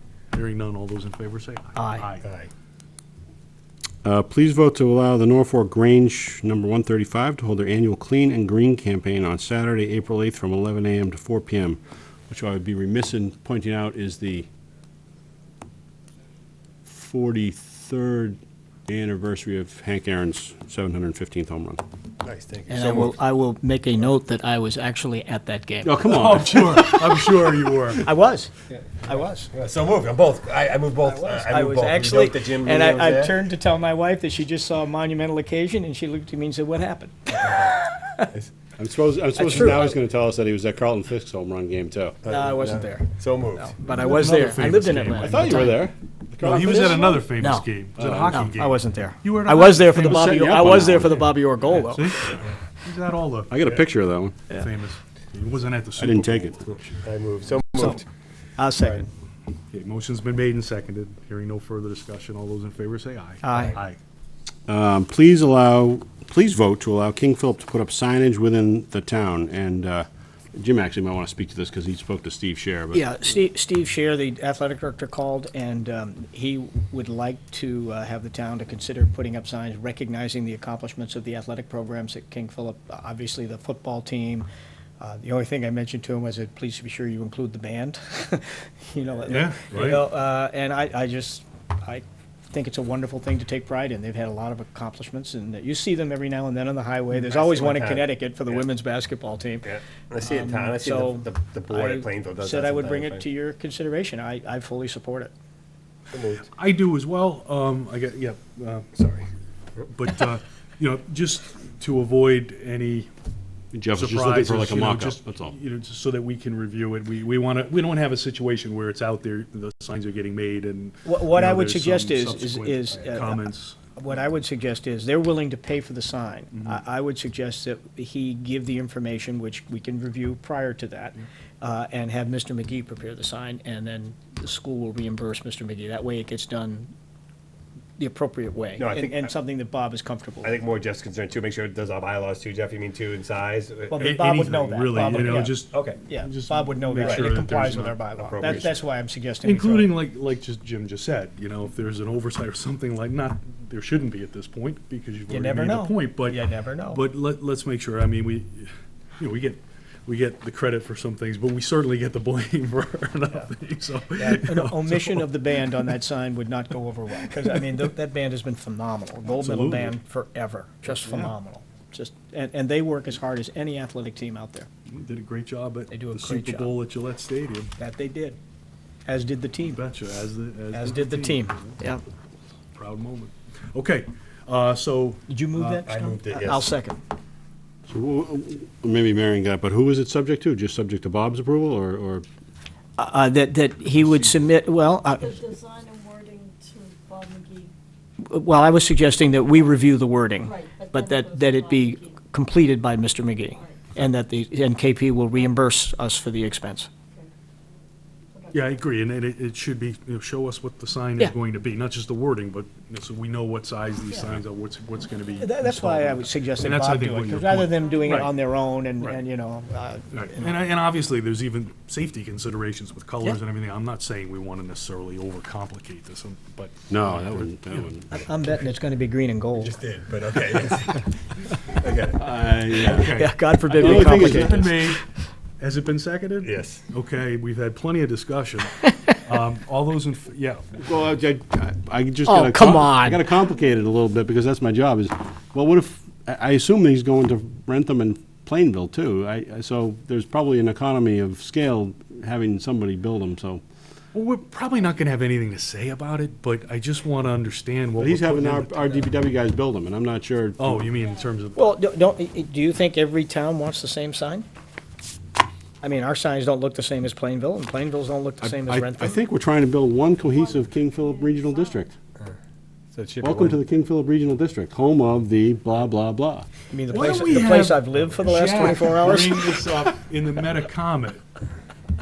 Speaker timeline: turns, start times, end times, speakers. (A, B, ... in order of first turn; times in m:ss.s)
0:00.3-0:02.2 A
0:01.7-0:02.1 B
0:02.2-0:02.5 C
0:04.0-0:14.5 D
0:16.8-0:21.8 D
0:22.2-0:23.2 C
0:22.7-0:26.3 B
0:25.8-0:26.9 D
0:26.1-0:28.1 A
0:28.0-0:29.5 B
0:28.7-0:33.4 C
0:31.0-0:38.3 B
0:37.3-0:37.7 C
0:38.8-0:42.2 D
0:39.3-0:40.0 B
0:42.2-0:43.7 C
0:42.2-0:45.9 B
0:43.8-0:45.8 A
0:45.1-0:47.0 D
0:46.4-0:53.8 A
0:46.4-0:47.7 B
0:48.0-0:48.5 D
0:48.3-0:52.4 B
0:50.0-0:51.3 D
0:53.5-0:54.4 D
0:54.5-0:57.1 A
0:56.0-0:56.6 D
0:57.0-0:58.0 C
0:57.7-0:58.0 B
0:58.6-0:59.1 B
0:59.7-1:04.0 A
1:03.4-1:03.8 B
1:04.7-1:13.1 D
1:12.9-1:24.5 B
1:25.0-1:39.7 B
1:29.3-1:30.0 A
1:37.2-1:38.7 C
1:39.6-1:43.2 C
1:40.2-1:45.3 B
1:46.1-1:46.5 C
1:46.5-1:48.9 A
1:48.9-1:49.3 C
1:49.9-1:53.1 A
1:53.7-1:55.6 D
1:53.9-2:03.8 A
2:01.0-2:16.9 B
2:18.0-2:20.5 B
2:18.8-2:19.3 C
2:20.4-2:24.1 C
2:23.9-2:30.0 B
2:24.0-2:28.0 A
2:24.9-2:26.0 C
2:27.0-2:28.8 C
2:29.4-2:45.3 A
2:35.3-2:37.0 B
2:44.1-2:54.7 B
2:49.4-2:49.9 A
2:50.9-2:51.3 A
2:54.9-2:57.7 A
2:55.9-2:56.7 B
2:57.8-2:58.4 B
2:59.0-2:59.8 B
2:59.7-3:01.8 A
3:00.7-3:02.0 B
3:02.7-3:05.2 A
3:05.3-3:07.0 B
3:05.6-3:06.7 C
3:07.9-3:12.2 D
3:13.0-3:15.4 B
3:15.1-3:17.7 E
3:18.2-3:26.9 B
3:20.4-3:22.2 E
3:23.6-3:23.8 E
3:28.3-3:28.8 E
3:28.5-3:38.3 A
3:35.4-3:40.6 B
3:38.0-3:38.3 E
3:40.1-3:47.9 A
3:46.9-3:48.2 D
3:48.1-3:49.8 B
3:49.6-3:52.2 C
3:52.2-3:54.8 D
3:52.7-3:55.0 A
3:52.9-3:54.9 B
3:55.6-4:00.8 A
3:56.4-3:56.8 C
4:00.8-4:13.6 D
4:02.2-4:03.3 B
4:14.1-4:19.1 A
4:18.0-4:20.8 D
4:20.6-4:21.6 A
4:20.9-4:21.3 E
4:21.5-4:24.5 B
4:25.8-4:29.1 B
4:28.4-4:31.9 D
4:30.2-4:31.9 E
4:32.9-4:33.6 C
4:33.2-4:36.5 D
4:36.7-4:39.6 B
4:36.9-4:41.2 A